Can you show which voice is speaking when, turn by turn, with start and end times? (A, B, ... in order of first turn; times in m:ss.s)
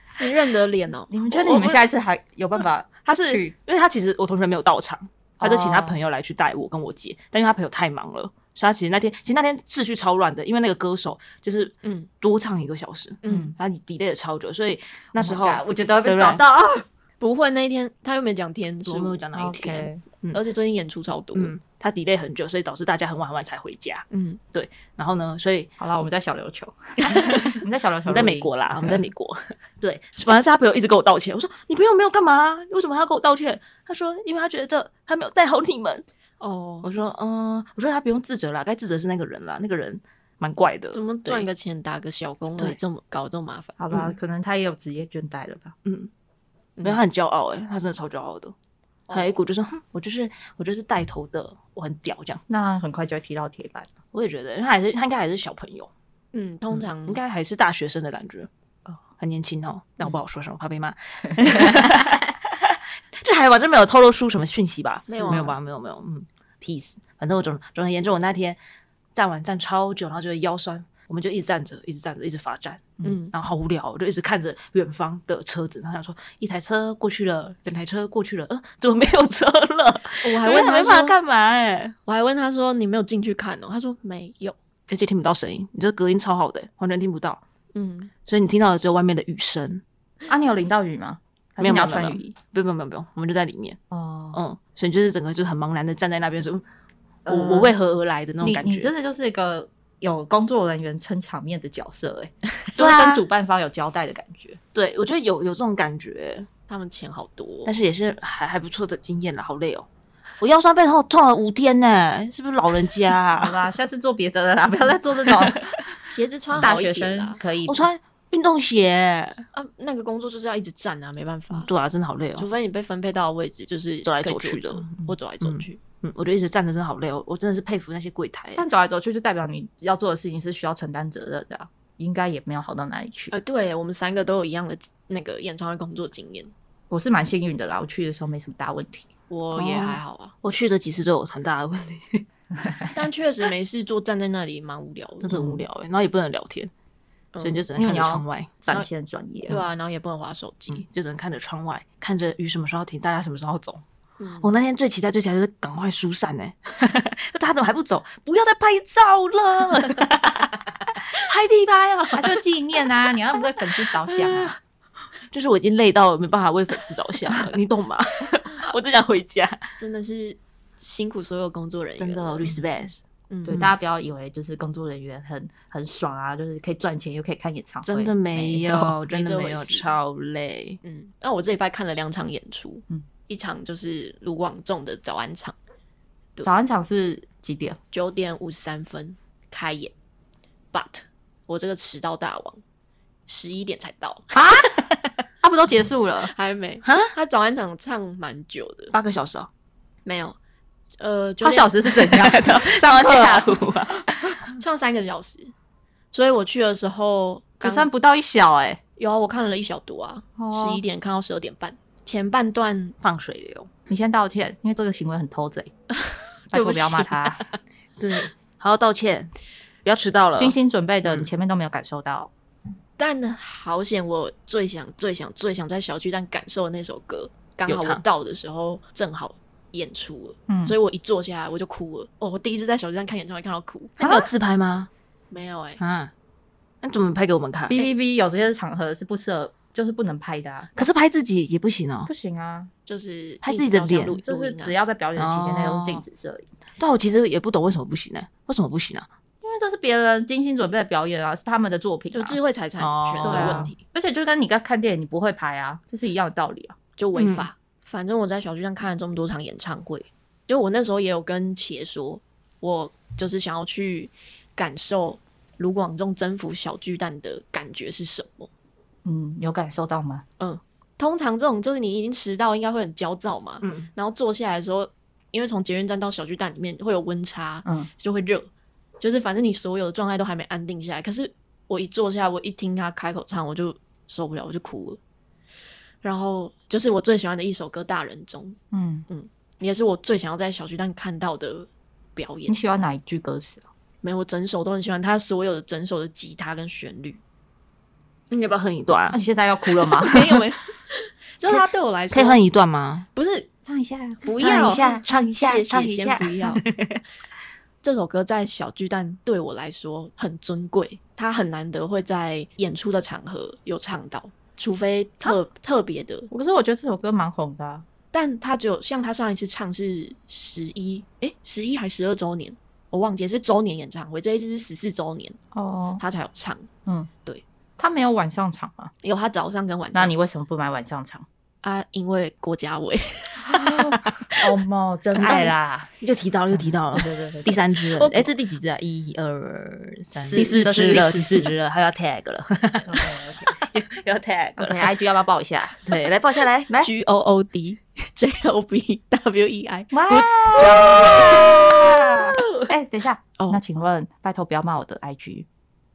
0:00.2-0:01.8 A
0:01.1-0:03.5 B
0:03.0-0:16.4 C
0:05.4-0:06.0 B
0:13.2-0:13.5 A
0:13.3-0:13.5 B
0:15.2-0:16.8 B
0:17.2-0:19.2 A
0:18.9-0:20.4 C
0:19.3-0:20.0 B
0:20.3-0:21.6 A
0:21.3-0:25.7 C
0:24.1-0:24.4 A
0:25.8-0:29.0 B
0:27.1-0:36.0 C
0:36.4-0:36.9 A
0:36.8-0:41.5 C
0:40.9-0:44.0 A
0:43.8-0:45.7 B
0:45.8-0:46.1 C
0:46.8-0:48.5 C
0:49.1-0:52.4 C
0:52.5-0:53.9 B
0:54.1-0:55.9 C
0:56.3-0:57.2 A
0:57.1-0:58.5 C
0:59.2-1:08.6 C
1:05.1-1:05.6 A
1:09.2-1:22.0 C
1:13.0-1:13.3 A
1:20.2-1:21.2 A
1:22.1-1:24.6 A
1:24.9-1:27.4 C
1:27.8-1:28.1 A
1:28.3-1:29.8 C
1:30.3-1:32.3 B
1:31.6-1:33.8 C
1:33.9-1:34.4 B
1:34.3-1:36.6 C
1:37.3-1:37.8 B
1:37.3-1:38.9 C
1:38.4-1:44.6 B
1:42.8-1:43.2 C
1:44.7-1:46.5 C
1:46.7-1:47.7 A
1:47.7-1:49.9 C
1:50.4-1:53.6 C
1:53.3-1:55.6 B
1:55.4-1:55.6 C
1:56.1-1:57.4 A
1:56.5-1:57.9 B
1:57.6-1:59.4 C
1:59.5-2:01.7 A
2:01.6-2:02.5 C
2:02.4-2:05.8 A
2:04.0-2:08.6 C
2:08.6-2:13.4 B
2:13.3-2:16.5 A
2:16.9-2:19.1 B
2:19.3-2:20.4 A
2:20.4-2:22.2 C
2:22.6-2:22.9 B
2:22.9-2:25.3 A
2:25.2-2:26.7 C
2:25.3-2:25.6 B
2:27.3-2:27.6 A
2:27.4-2:28.6 C
2:27.8-2:29.6 B
2:29.5-2:30.8 A
2:30.8-2:33.8 C
2:34.2-2:34.5 A
2:34.4-2:42.4 C
2:42.2-2:44.6 B
2:43.9-2:44.6 C
2:45.3-2:49.6 C
2:49.8-2:52.5 A
2:52.0-2:53.0 C
2:53.3-2:53.7 A
2:53.5-2:59.0 B
2:57.9-3:00.8 C
2:59.1-2:59.9 A
3:00.8-3:05.6 A
3:06.4-3:07.8 B
3:07.9-3:09.9 A
3:10.7-3:12.6 A
3:13.3-3:14.4 A
3:14.3-3:14.8 B
3:15.4-3:16.3 B
3:16.3-3:18.9 A
3:16.8-3:17.1 C
3:18.9-3:19.5 C
3:20.1-3:20.4 A
3:21.0-3:21.8 A
3:21.4-3:23.6 B
3:22.0-3:24.4 C
3:24.6-3:25.5 A
3:26.1-3:27.9 A
3:27.6-3:28.8 B
3:29.0-3:33.0 A
3:30.4-3:30.8 B
3:33.0-3:33.7 C
3:33.9-3:35.7 B
3:36.0-3:37.5 A
3:36.5-3:37.4 B
3:38.0-3:39.3 C
3:39.8-3:40.6 C
3:40.4-3:42.3 B
3:43.0-3:54.0 A
3:47.7-3:48.0 C
3:50.5-3:50.8 B
3:54.0-3:54.9 C
3:54.0-3:54.3 B
3:55.3-3:55.8 A
3:55.8-3:56.1 C
3:56.8-3:57.8 C
3:57.7-4:00.7 B
4:00.8-4:02.1 C
4:02.1-4:02.7 B
4:02.9-4:04.8 A
4:03.4-4:04.2 C
4:04.2-4:06.5 B
4:05.2-4:06.0 C
4:06.8-4:09.1 C
4:09.4-4:12.4 B
4:12.1-4:13.8 A
4:12.8-4:13.7 C
4:13.2-4:16.8 B
4:17.0-4:28.5 A
4:17.2-4:17.5 C
4:29.0-4:30.2 B
4:30.4-4:45.0 A
4:33.6-4:33.9 C
4:46.0-4:52.6 A
4:48.7-4:49.1 B
4:52.5-4:53.7 B
4:54.0-4:57.2 A
4:58.3-4:59.2 C
4:59.0-5:00.5 B
5:00.0-5:02.4 A
5:02.1-5:03.1 C
5:03.2-5:03.5 A
5:03.6-5:05.5 B
5:04.2-5:06.6 A
5:04.4-5:07.0 C
5:07.8-5:16.3 A
5:16.3-5:17.8 B
5:18.1-5:25.4 A
5:25.5-5:26.0 B
5:26.0-5:26.7 A
5:27.8-5:28.9 B
5:29.0-5:30.1 A
5:29.9-5:31.2 B
5:31.6-5:34.5 A
5:33.5-5:35.9 B
5:35.2-5:45.0 C
5:36.5-5:38.3 B
5:40.2-5:41.5 B
5:40.4-5:41.1 A
5:42.9-5:43.6 B
5:44.6-5:45.8 B
5:45.8-5:46.7 C
5:46.8-5:51.5 A
5:49.9-5:55.5 B
5:50.6-5:52.6 C